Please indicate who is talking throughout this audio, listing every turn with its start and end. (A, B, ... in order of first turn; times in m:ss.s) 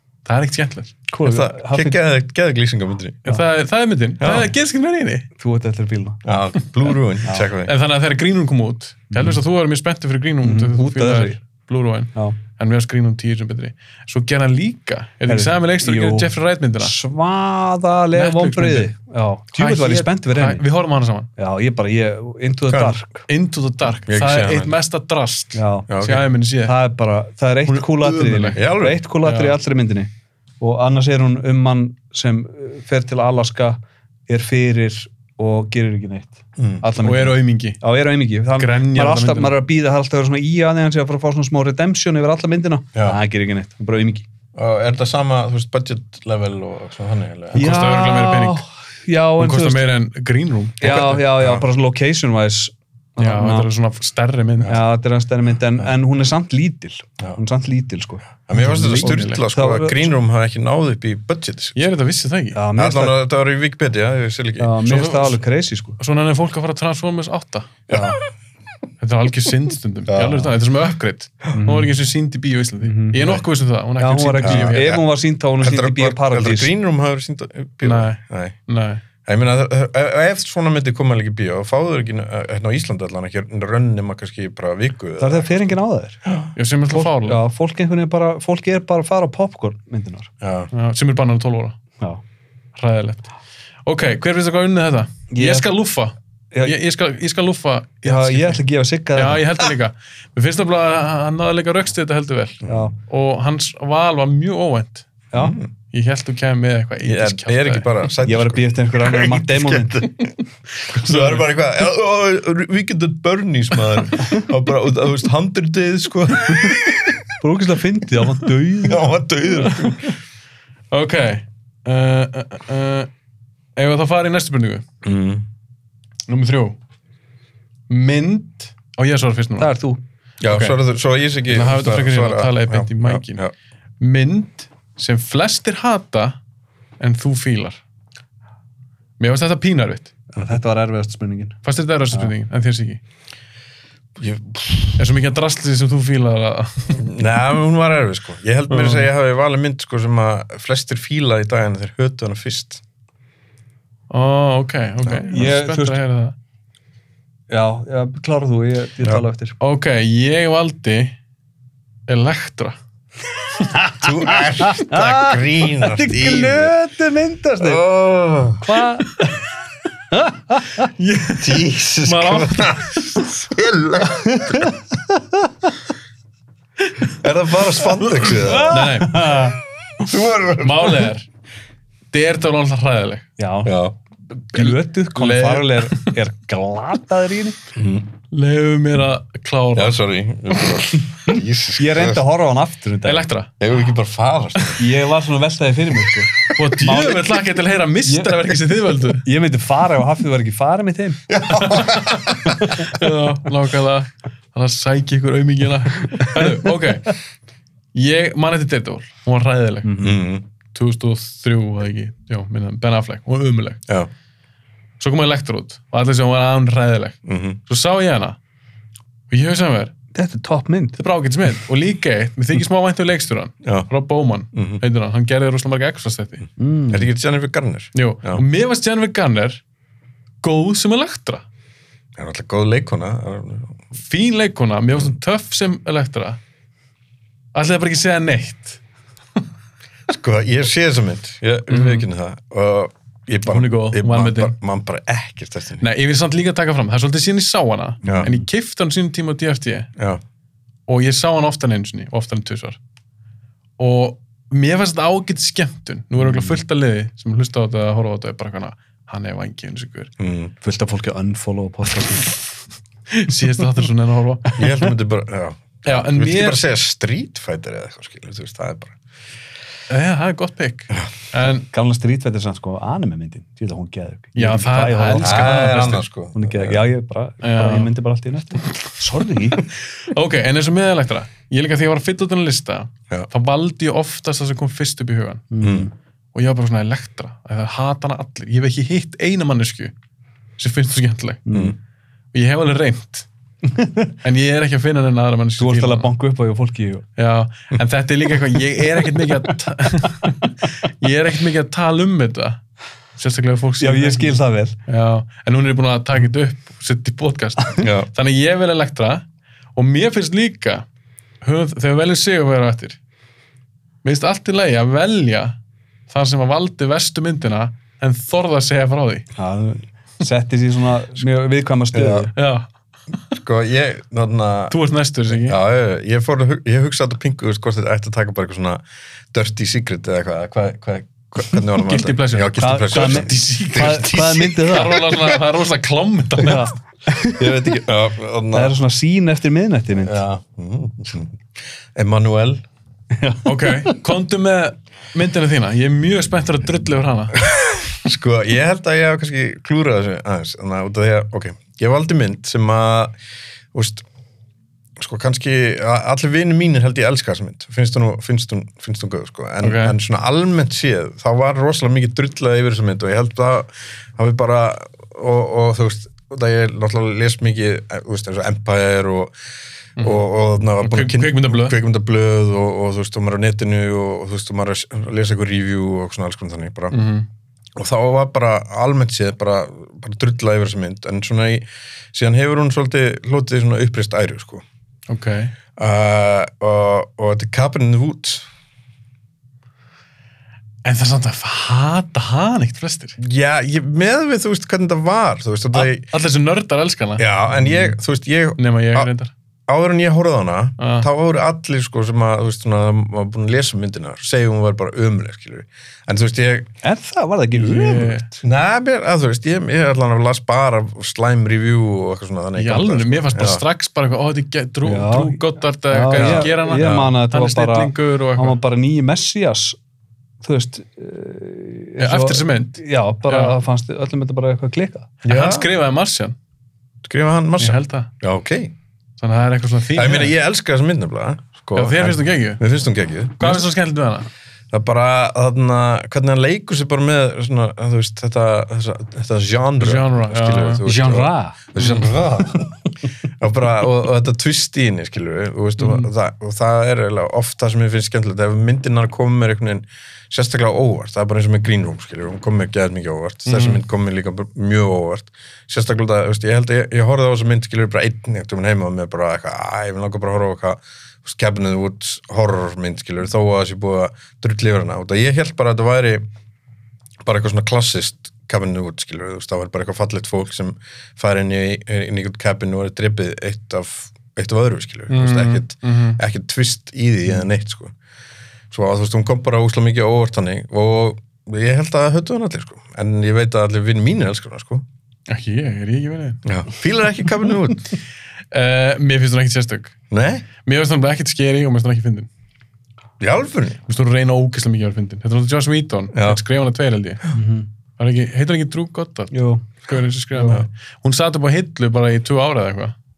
0:00.2-0:01.1 A
0:01.1-0:02.0 B
0:01.2-0:03.2 C
0:03.2-0:05.3 A
0:04.2-0:04.5 C
0:05.4-0:06.2 B
0:06.2-0:07.7 C
0:07.2-0:07.5 B
0:07.6-0:17.0 A
0:09.1-0:09.4 B
0:10.4-0:11.4 B
0:15.3-0:20.6 B
0:18.1-0:18.9 A
0:19.6-0:21.3 A
0:21.4-0:23.2 B
0:22.7-0:23.0 C
0:23.3-0:26.8 A
0:24.1-0:24.7 C
0:25.5-0:25.9 B
0:25.9-0:26.3 C
0:26.6-0:44.3 B
0:27.6-0:28.6 A
0:28.5-0:29.0 C
0:29.2-0:29.6 A
0:36.6-0:36.9 C
0:37.0-0:37.8 A
0:38.6-0:39.5 A
0:44.5-0:47.8 C
0:47.5-0:48.6 A
0:47.5-0:49.8 B
0:49.4-0:51.2 A
0:50.8-0:53.7 B
0:50.9-0:51.6 C
0:53.2-0:54.8 A
0:54.6-1:00.1 B
0:58.4-1:01.8 C
0:58.6-0:59.4 A
1:01.7-1:02.6 A
1:02.5-1:03.2 B
1:02.8-1:04.8 C
1:04.6-1:06.0 B
1:04.8-1:05.4 A
1:06.0-1:07.7 A
1:07.9-1:08.2 B
1:07.9-1:08.2 C
1:09.0-1:15.0 A
1:10.1-1:10.5 C
1:11.5-1:11.9 B
1:12.8-1:13.4 B
1:14.0-1:16.7 B
1:14.4-1:15.0 C
1:15.6-1:18.6 C
1:17.8-1:19.0 A
1:19.2-1:26.5 C
1:25.2-1:26.2 B
1:26.5-1:27.4 A
1:26.9-1:30.3 B
1:30.4-1:30.7 C
1:30.7-1:31.8 A
1:32.8-1:33.3 A
1:33.8-1:38.6 A
1:35.3-1:35.7 B
1:36.5-1:36.8 B
1:38.0-1:39.4 B
1:39.1-1:45.1 A
1:42.7-1:42.9 B
1:45.3-1:45.7 C
1:45.9-1:47.9 A
1:47.0-1:57.2 C
1:48.2-1:50.1 B
1:50.9-1:51.4 A
1:57.4-1:59.1 B
1:58.8-2:00.1 C
2:00.9-2:03.1 A
2:03.8-2:04.8 A
2:05.0-2:05.4 C
2:06.3-2:06.8 A
2:07.9-2:09.7 A
2:09.6-2:10.0 B
2:10.4-2:13.5 C
2:10.4-2:10.8 A
2:11.5-2:13.4 A
2:14.0-2:16.4 A
2:17.0-2:17.8 A
2:19.2-2:20.1 A
2:20.3-2:21.6 B
2:21.6-2:23.0 A
2:24.2-2:25.0 C
2:25.0-2:27.0 A
2:26.9-2:32.8 C
2:28.7-2:29.1 A
2:34.1-2:36.4 A
2:35.3-2:36.0 B
2:37.5-2:39.6 B
2:39.6-2:41.2 A
2:42.1-2:42.8 A
2:43.6-2:47.8 B
2:44.0-2:46.7 C
2:47.6-2:48.8 C
2:48.6-2:49.5 B
2:50.1-2:50.9 B
2:50.7-2:53.3 A
2:51.4-2:54.8 C
2:54.2-2:54.7 B
2:57.1-2:58.8 C
2:58.1-2:59.4 A
2:58.2-2:59.6 B
3:00.0-3:01.1 C
3:00.6-3:01.3 A
3:02.1-3:03.3 A
3:03.4-3:03.7 B
3:03.6-3:03.9 C
3:04.5-3:07.6 B
3:04.5-3:06.1 A
3:07.8-3:08.1 C
3:08.3-3:10.0 A
3:09.8-3:12.2 C
3:11.3-3:13.3 B
3:13.0-3:13.5 A
3:13.6-3:14.8 C
3:14.8-3:17.3 B
3:16.5-3:19.2 A
3:18.0-3:18.4 B
3:19.2-3:21.2 B
3:21.3-3:22.8 C
3:21.5-3:27.1 A
3:22.5-3:22.9 B
3:27.9-3:30.0 A
3:29.8-3:30.2 B
3:30.0-3:30.4 C
3:30.7-3:33.8 A
3:35.0-3:38.4 A
3:37.2-3:37.6 C
3:39.3-3:39.9 A
3:40.1-3:41.0 B
3:41.0-3:46.4 A
3:43.6-3:43.9 C
3:44.5-3:44.8 C
3:46.6-3:47.1 B
3:46.9-3:48.4 C
3:47.9-3:49.6 A
3:50.4-3:51.4 A
3:52.2-3:53.8 C
3:54.0-3:56.4 A
3:57.5-3:58.8 A
4:00.1-4:05.8 C
4:01.7-4:02.0 A
4:03.4-4:04.5 A
4:05.8-4:09.9 A
4:08.0-4:08.4 C
4:10.9-4:12.8 A
4:13.8-4:20.1 A
4:16.2-4:16.6 B
4:20.2-4:20.5 C
4:20.6-4:22.4 B
4:23.1-4:24.6 A
4:24.5-4:29.0 C
4:25.8-4:26.6 A
4:29.9-4:31.7 A
4:31.7-4:39.6 B
4:34.4-4:36.0 A
4:35.2-4:36.8 C
4:37.4-4:37.9 A
4:39.5-4:45.4 A
4:45.5-4:45.9 B
4:45.6-4:45.9 C
4:46.3-4:49.9 A
4:50.6-4:51.4 A
4:51.5-4:51.7 B
4:52.3-4:53.3 A
4:53.7-4:54.1 B
4:54.2-4:56.1 A
4:55.6-4:57.0 B
4:57.2-5:02.6 A
5:03.2-5:10.8 A
5:03.8-5:04.8 B
5:07.8-5:08.1 C
5:11.4-5:13.0 A
5:14.0-5:15.6 A
5:16.1-5:19.3 A
5:19.4-5:22.3 B
5:21.9-5:22.3 C
5:22.3-5:22.7 A
5:23.3-5:24.8 C
5:24.7-5:25.6 A
5:25.3-5:28.8 C
5:29.3-5:35.0 C
5:31.7-5:36.7 A
5:32.6-5:35.0 B
5:36.4-5:37.8 B
5:37.3-5:38.7 C
5:38.5-5:40.2 B
5:40.0-5:41.3 C
5:41.9-5:42.6 C
5:43.1-5:44.0 B
5:43.4-5:47.4 A
5:47.4-5:53.1 C
5:53.7-5:54.0 C
5:55.0-6:09.3 C
5:59.6-6:00.0 A
6:10.0-6:17.0 C
6:10.8-6:11.8 A
6:16.9-6:17.3 A
6:17.8-6:24.6 C
6:25.1-6:25.5 A
6:25.8-6:28.4 C
6:30.8-6:33.2 A
6:33.2-6:36.1 C
6:35.7-6:37.2 A
6:37.2-6:39.1 C
6:37.6-6:37.9 B
6:38.6-6:39.3 A
6:39.7-6:46.7 C
6:40.8-6:41.1 A
6:46.8-6:48.4 B
6:47.6-6:48.3 A
6:48.4-6:53.6 C
6:52.6-6:58.6 A
6:54.8-6:59.8 B
6:56.1-6:57.1 C
7:00.4-7:05.1 B
7:02.0-7:03.6 A
7:05.2-7:06.4 A
7:05.2-7:05.7 C
7:07.0-7:08.7 C
7:07.6-7:08.1 A
7:09.2-7:10.3 A
7:09.9-7:13.6 C
7:11.7-7:12.6 A
7:13.4-7:14.3 A
7:14.7-7:46.2 C
7:19.8-7:20.8 A
7:20.8-7:22.7 B
7:33.5-7:33.8 A
7:47.2-7:57.9 C
7:55.1-7:56.2 A
7:58.7-8:04.8 C
8:05.3-8:06.4 A
8:06.4-8:07.9 C
8:08.5-8:09.9 A
8:10.1-8:10.4 C
8:10.6-8:12.3 A
8:13.2-8:13.8 C
8:13.9-8:17.2 A
8:16.1-8:16.4 C
8:17.3-8:17.7 B
8:18.0-8:22.9 A
8:19.3-8:19.6 B
8:20.3-8:20.6 B